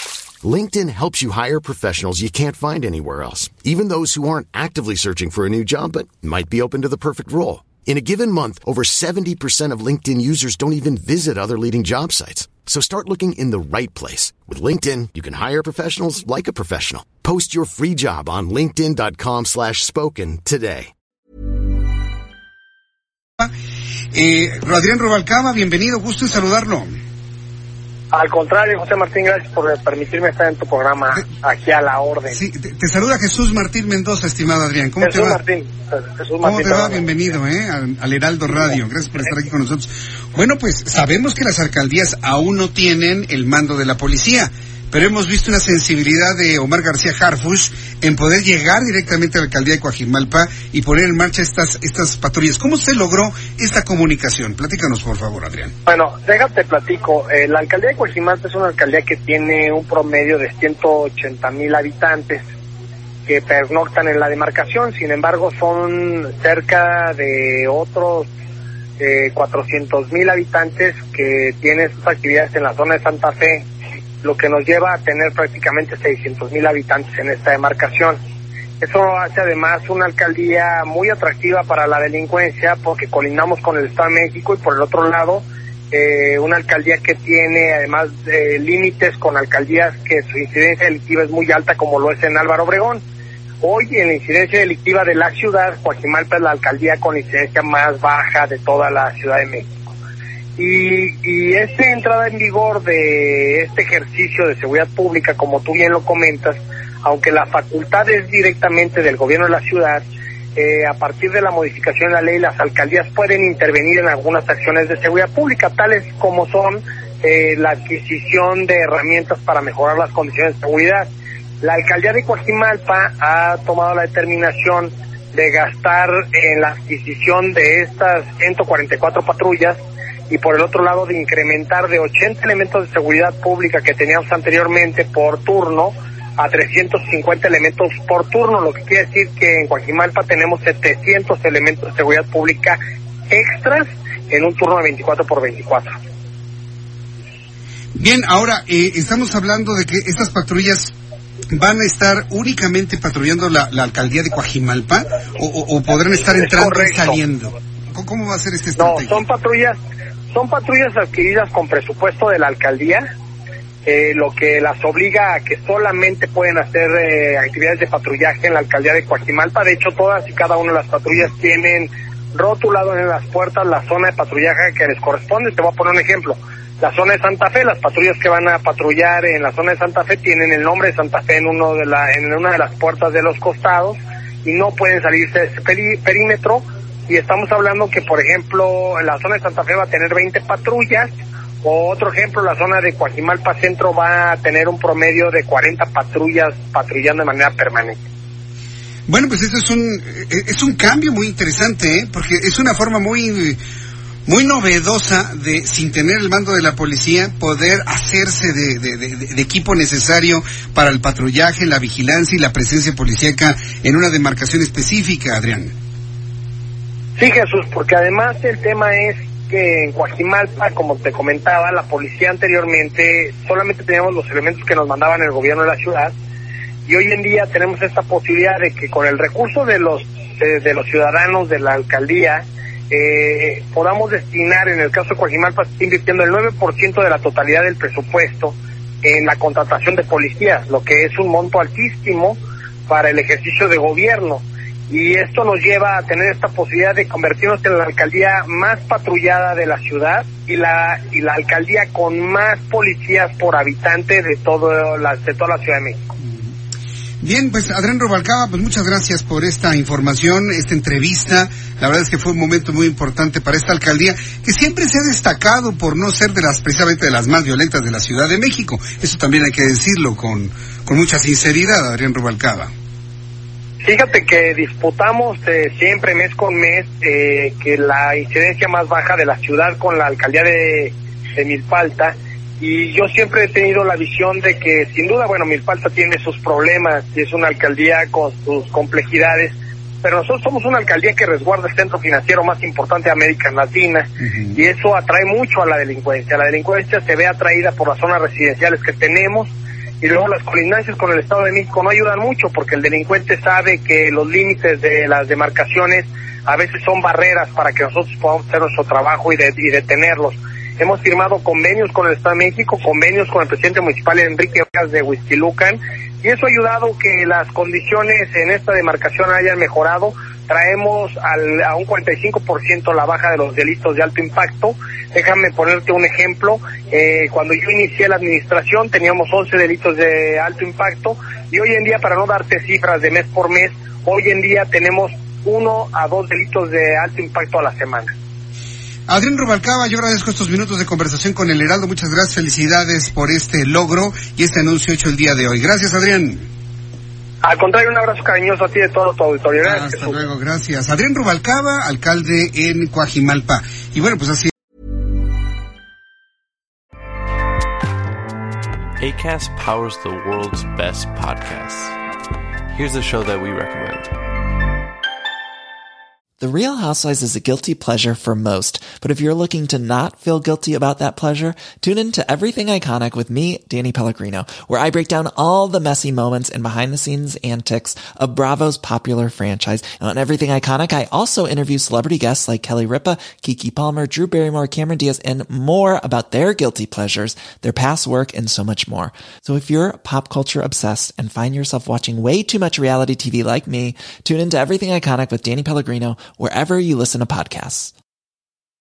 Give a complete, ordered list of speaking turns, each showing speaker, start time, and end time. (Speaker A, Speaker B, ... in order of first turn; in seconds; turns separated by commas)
Speaker A: 0.4-20.9, Speaker B: 24.1-26.9, Speaker C: 28.1-32.4, Speaker B: 32.3-35.4, Speaker C: 35.0-37.2, Speaker B: 36.4-55.7, Speaker C: 55.9-62.4, Speaker C: 63.2-68.3, Speaker C: 69.0-73.7, Speaker C: 74.2-78.2, Speaker C: 78.8-93.0, Speaker C: 93.6-99.7, Speaker C: 100.6-121.1, Speaker C: 121.6-129.8, Speaker C: 130.3-142.8, Speaker C: 143.3-145.9, Speaker B: 147.9-150.9, Speaker B: 151.5-159.2, Speaker C: 156.3-157.2, Speaker C: 158.8-159.8, Speaker C: 160.3-163.1, Speaker C: 163.8-191.1, Speaker C: 191.6-198.0, Speaker B: 199.1-203.6, Speaker B: 204.2-215.7, Speaker C: 217.2-226.1, Speaker C: 226.9-256.1, Speaker B: 257.2-272.7, Speaker C: 273.8-338.1, Speaker B: 339.1-346.4, Speaker C: 347.4-350.2, Speaker B: 349.6-354.5, Speaker D: 359.0-362.0, Speaker D: 362.7-364.2, Speaker E: 366.4-397.9